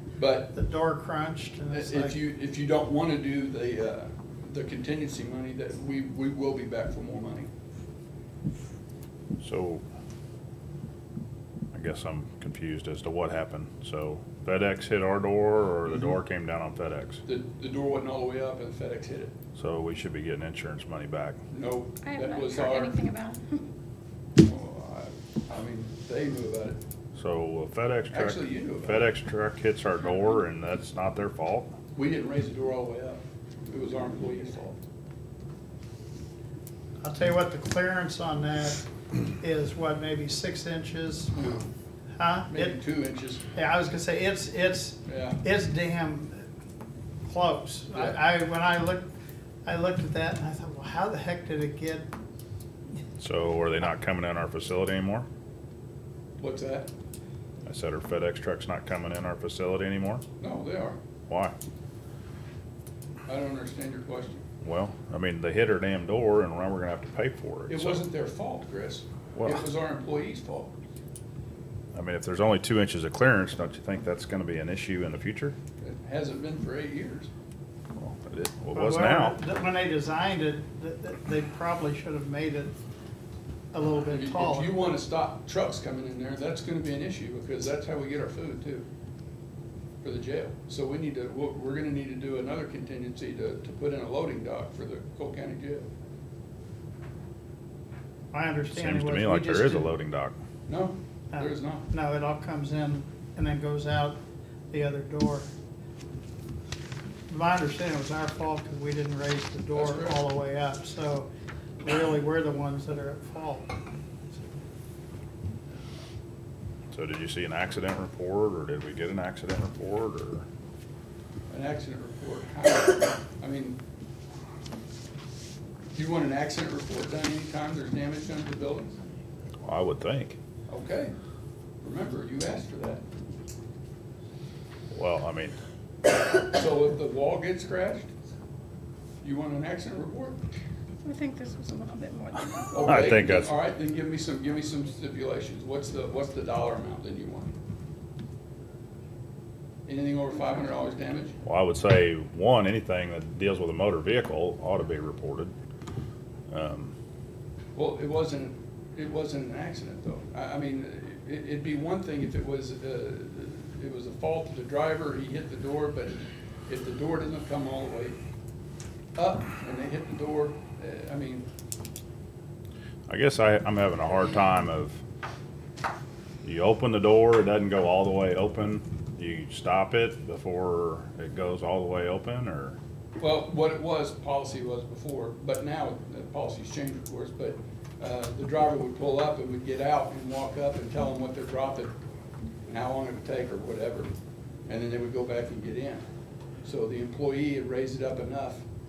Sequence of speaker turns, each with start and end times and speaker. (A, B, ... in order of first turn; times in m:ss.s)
0:00.2-0:00.5 A
0:00.5-0:02.2 B
0:01.7-0:07.5 A
0:09.4-0:09.8 C
0:11.7-0:17.2 C
0:17.2-0:19.3 A
0:19.6-0:21.4 C
0:21.5-0:23.0 A
0:22.0-0:23.7 D
0:24.4-0:26.8 A
0:27.2-0:31.7 C
0:28.1-0:29.0 A
0:31.9-0:34.8 A
0:37.0-0:41.3 B
0:41.3-0:41.7 A
0:42.2-0:42.8 B
0:42.5-0:43.4 A
0:43.5-0:46.4 B
0:45.0-0:45.4 A
0:47.2-0:49.1 B
0:49.6-0:52.1 B
0:53.2-0:55.3 C
0:56.4-0:56.9 A
0:57.6-1:00.2 C
1:00.4-1:01.0 A
1:01.3-1:01.5 C
1:03.3-1:04.4 A
1:04.6-1:08.0 C
1:07.7-1:10.7 A
1:09.3-1:09.6 C
1:11.9-1:15.6 C
1:15.8-1:17.3 A
1:18.0-1:19.4 C
1:18.7-1:22.8 B
1:23.7-1:24.9 B
1:24.1-1:28.9 A
1:30.0-1:35.9 A
1:38.3-1:39.9 B
1:38.7-1:40.4 C
1:40.7-1:41.9 A
1:41.3-1:45.5 B
1:47.3-1:51.3 B
1:49.7-1:50.2 A
1:51.8-1:53.7 B
1:56.9-2:00.4 C
2:01.5-2:03.8 A
2:05.9-2:09.0 A
2:09.6-2:10.4 C
2:10.7-2:11.1 A
2:11.8-2:13.0 A
2:14.9-2:15.6 C
2:16.3-2:18.1 A
2:19.2-2:20.4 A
2:21.0-2:22.8 D
2:22.7-2:27.5 A
2:22.8-2:23.6 C
2:29.8-2:31.3 A
2:31.4-2:35.5 C
2:36.5-2:36.9 C
2:37.7-2:48.2 A
2:49.2-2:51.5 A
2:53.1-2:55.0 C
2:56.4-3:02.8 C
3:03.2-3:11.9 A
3:12.7-3:14.1 A
3:14.7-3:16.0 A
3:16.6-3:18.6 A